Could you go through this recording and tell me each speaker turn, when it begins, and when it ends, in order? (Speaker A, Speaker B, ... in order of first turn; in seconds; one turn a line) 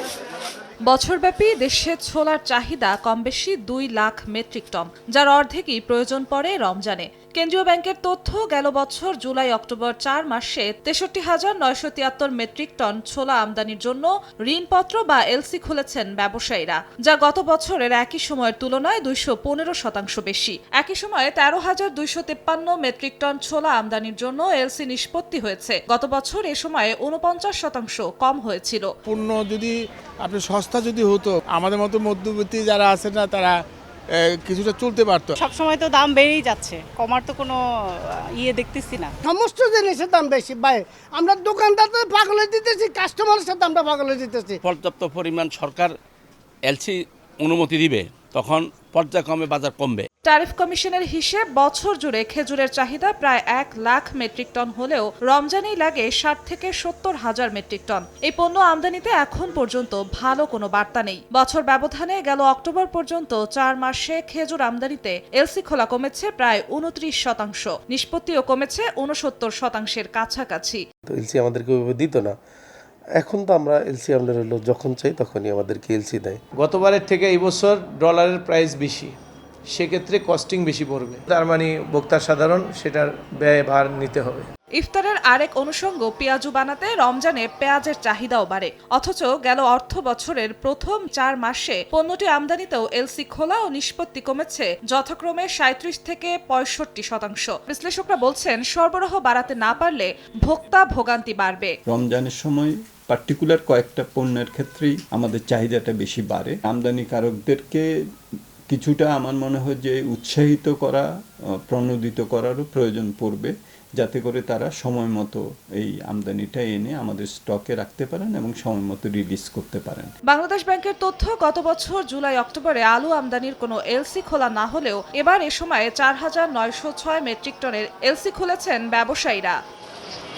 Speaker A: 0.9-28.9
Speaker B: 29.1-33.6
Speaker B: 34.2-35.4
Speaker C: 35.4-37.6
Speaker C: 38.4-39.1
Speaker D: 39.3-44.6
Speaker E: 44.6-45.9
Speaker E: 46.6-50.1
Speaker A: 50.2-70.8
Speaker F: 71.1-72.3
Speaker F: 73.2-76.4
Speaker G: 76.5-79.2
Speaker G: 79.7-84.5
Speaker A: 84.8-101.7
Speaker H: 101.9-107.8
Speaker H: 108.7-111.1
Speaker H: 111.7-120.1
Speaker A: 120.3-129.6